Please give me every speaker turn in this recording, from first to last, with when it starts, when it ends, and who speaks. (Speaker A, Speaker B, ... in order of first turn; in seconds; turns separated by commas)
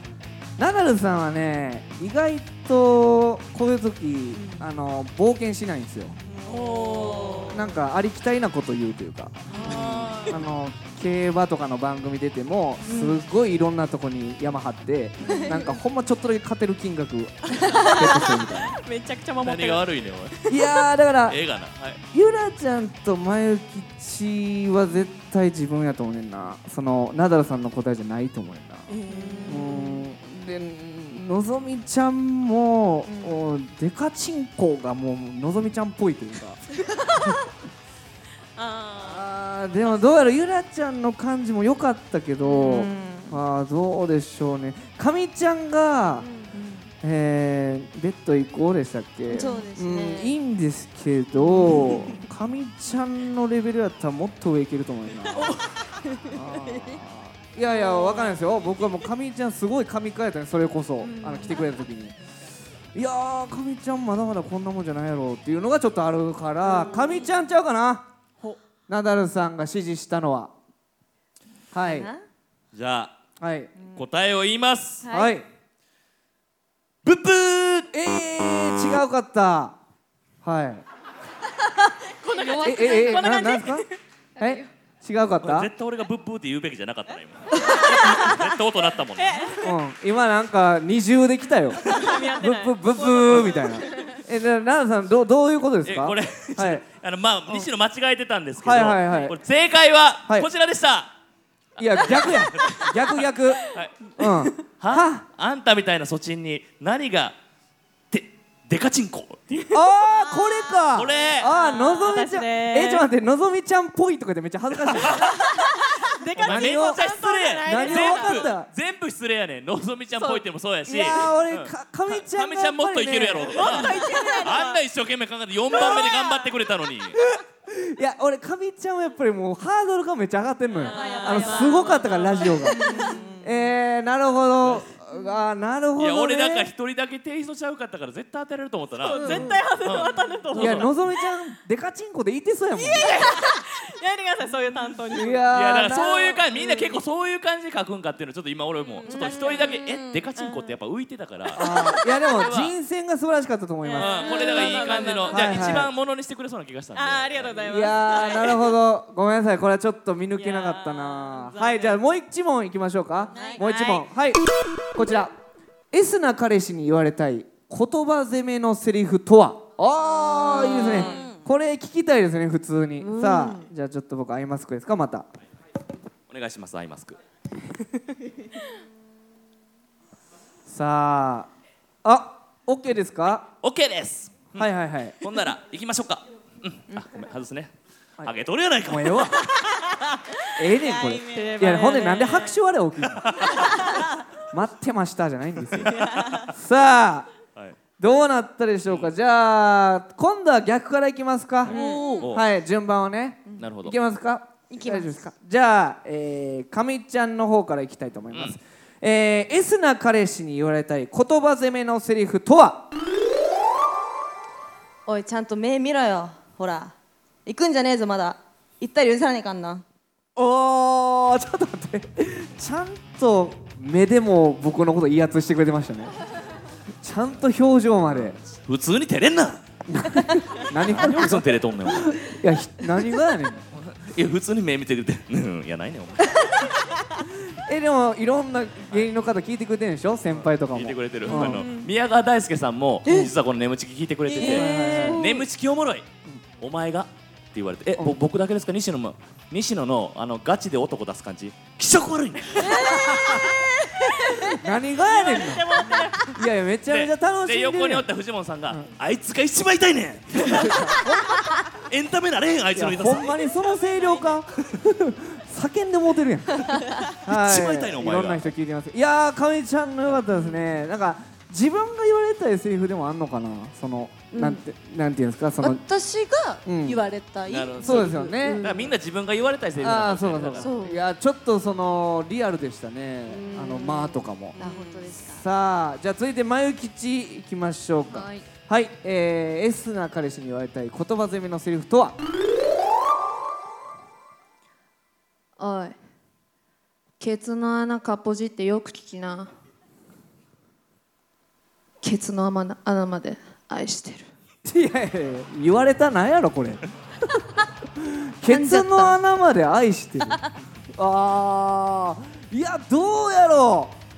Speaker A: 0.6-6.2, Speaker B: 4.4-4.6, Speaker B: 6.3-7.8, Speaker A: 7.5-18.8, Speaker B: 9.5-10.5, Speaker B: 12.8-13.2, Speaker B: 15.2-15.8, Speaker B: 17.5-19.9, Speaker C: 19.4-20.4, Speaker B: 20.4-20.8, Speaker A: 20.5-21.4, Speaker C: 21.3-22.0, Speaker A: 22.1-28.9, Speaker B: 28.9-30.1, Speaker D: 29.1-29.5, Speaker E: 29.3-29.6, Speaker A: 29.5-36.6, Speaker B: 33.1-33.4, Speaker B: 36.8-37.4, Speaker B: 38.6-39.2, Speaker A: 39.0-46.3, Speaker D: 42.5-43.2, Speaker B: 42.6-43.3, Speaker B: 46.4-46.9, Speaker A: 47.0-55.6, Speaker D: 49.3-50.3, Speaker B: 49.4-49.7, Speaker B: 51.5-52.2, Speaker B: 55.4-57.0, Speaker A: 56.3-62.2, Speaker B: 58.0-58.3, Speaker B: 61.0-61.8, Speaker A: 62.9-68.1, Speaker B: 66.8-67.3, Speaker A: 68.9-70.5, Speaker A: 71.7-72.1, Speaker D: 71.8-72.2, Speaker C: 72.7-73.2, Speaker A: 73.4-73.7, Speaker C: 73.9-75.1, Speaker A: 75.1-75.4, Speaker C: 77.0-77.9, Speaker A: 77.9-79.8, Speaker A: 80.4-80.8, Speaker B: 82.0-83.9, Speaker A: 82.6-83.9, Speaker E: 82.8-83.4, Speaker A: 84.4-85.7, Speaker C: 85.4-89.6, Speaker B: 87.6-88.5, Speaker B: 89.2-89.8, Speaker A: 89.6-96.8, Speaker B: 91.8-94.2, Speaker C: 95.8-101.1, Speaker A: 98.6-99.4, Speaker C: 101.8-102.8, Speaker A: 101.8-105.2, Speaker C: 103.6-104.0, Speaker C: 104.7-107.4, Speaker C: 108.1-109.7, Speaker B: 109.6-110.9, Speaker A: 109.7-115.3, Speaker C: 110.9-111.5, Speaker B: 111.5-113.1, Speaker C: 114.9-115.5, Speaker B: 115.1-118.5, Speaker C: 116.3-127.2, Speaker A: 116.4-118.7, Speaker B: 120.2-120.4, Speaker A: 120.9-124.0, Speaker B: 123.5-124.8, Speaker B: 125.8-126.5, Speaker A: 127.2-136.7, Speaker B: 130.8-133.6, Speaker D: 131.0-131.2, Speaker C: 136.0-140.9, Speaker B: 139.0-141.0, Speaker A: 139.1-139.6, Speaker A: 140.5-143.3, Speaker B: 142.8-145.5, Speaker C: 143.0-143.4, Speaker A: 145.1-146.4, Speaker C: 145.5-151.7, Speaker B: 148.9-150.7, Speaker A: 151.6-155.9, Speaker B: 151.6-152.1, Speaker C: 152.3-152.7, Speaker B: 153.8-155.8, Speaker C: 154.0-157.8, Speaker B: 156.9-158.8, Speaker A: 157.6-164.4, Speaker B: 160.4-162.0, Speaker B: 163.3-164.1, Speaker D: 163.3-163.6, Speaker A: 164.9-165.3, Speaker A: 165.9-175.3, Speaker B: 170.4-171.4, Speaker D: 170.6-171.3, Speaker E: 173.1-173.6, Speaker C: 176.3-177.2, Speaker A: 180.7-181.5, Speaker A: 182.0-183.5, Speaker C: 183.6-184.7, Speaker A: 184.6-185.2, Speaker C: 185.2-189.5, Speaker A: 188.8-189.4, Speaker B: 189.9-192.6, Speaker A: 190.6-193.8, Speaker C: 193.1-193.8, Speaker B: 193.6-194.1, Speaker A: 194.5-197.3, Speaker C: 195.8-196.2, Speaker B: 195.9-196.5, Speaker A: 198.0-212.9, Speaker D: 201.7-202.2, Speaker B: 201.7-202.3, Speaker C: 202.2-202.4, Speaker C: 203.6-204.0, Speaker D: 204.7-205.2, Speaker D: 215.1-216.9, Speaker D: 217.5-219.8, Speaker A: 220.4-226.1, Speaker A: 227.0-228.4, Speaker C: 228.1-229.6, Speaker A: 229.9-233.7, Speaker C: 230.7-232.2, Speaker C: 233.7-236.6, Speaker A: 237.5-241.7, Speaker C: 240.3-246.1, Speaker E: 241.3-241.8, Speaker D: 244.3-245.2, Speaker A: 244.4-245.2, Speaker E: 244.4-245.3, Speaker C: 246.6-253.0, Speaker B: 252.6-256.5, Speaker A: 252.9-253.5, Speaker A: 254.3-255.7, Speaker A: 256.3-258.1, Speaker C: 256.9-261.1, Speaker A: 260.4-261.4, Speaker C: 261.8-263.4, Speaker A: 262.7-275.8, Speaker B: 263.5-264.4, Speaker C: 267.2-268.5, Speaker D: 276.2-277.7, Speaker A: 276.7-277.0, Speaker E: 277.3-278.9, Speaker C: 277.5-280.7, Speaker A: 277.8-278.6, Speaker A: 279.8-284.6, Speaker E: 283.3-285.0, Speaker D: 284.6-285.4, Speaker B: 284.8-285.1, Speaker A: 285.2-292.2, Speaker E: 288.1-288.4, Speaker E: 295.6-296.0, Speaker E: 297.2-299.5, Speaker E: 302.0-304.3, Speaker A: 304.6-306.8, Speaker A: 308.0-310.4, Speaker E: 308.5-309.2, Speaker A: 310.9-314.0